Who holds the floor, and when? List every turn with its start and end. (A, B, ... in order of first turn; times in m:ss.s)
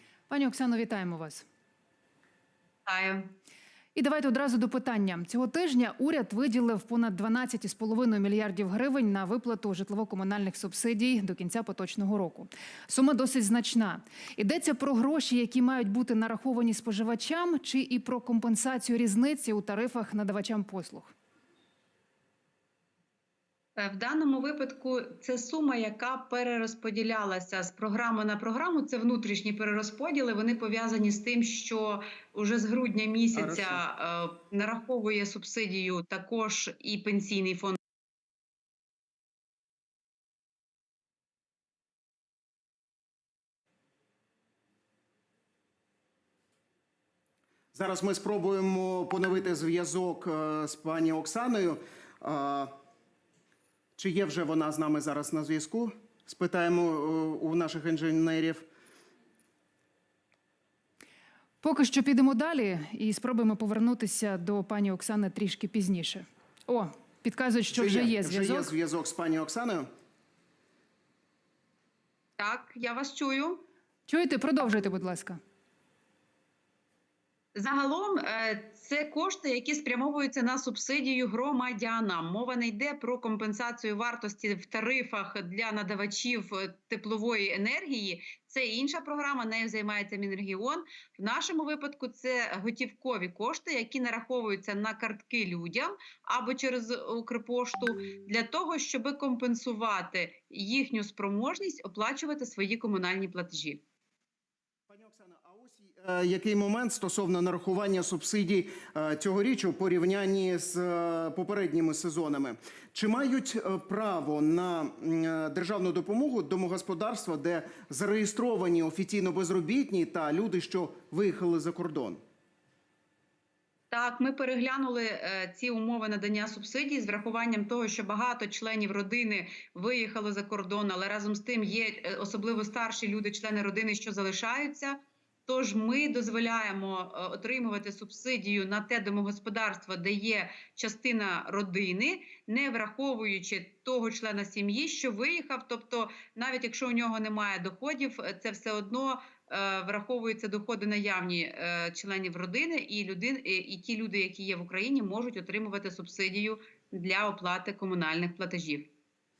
0:00.3-0:01.4 A
0:02.9-0:03.3 B
0:04.0-0:21.1 A
0:23.8-0:37.8 B
0:33.4-0:33.8 C
0:47.7-0:52.7 C
0:54.0-0:58.6 C
1:01.6-1:08.7 A
1:07.7-1:09.9 C
1:12.4-1:13.6 B
1:14.1-1:15.4 A
1:17.6-1:43.8 B
1:44.9-2:02.2 C
2:03.9-2:38.9 B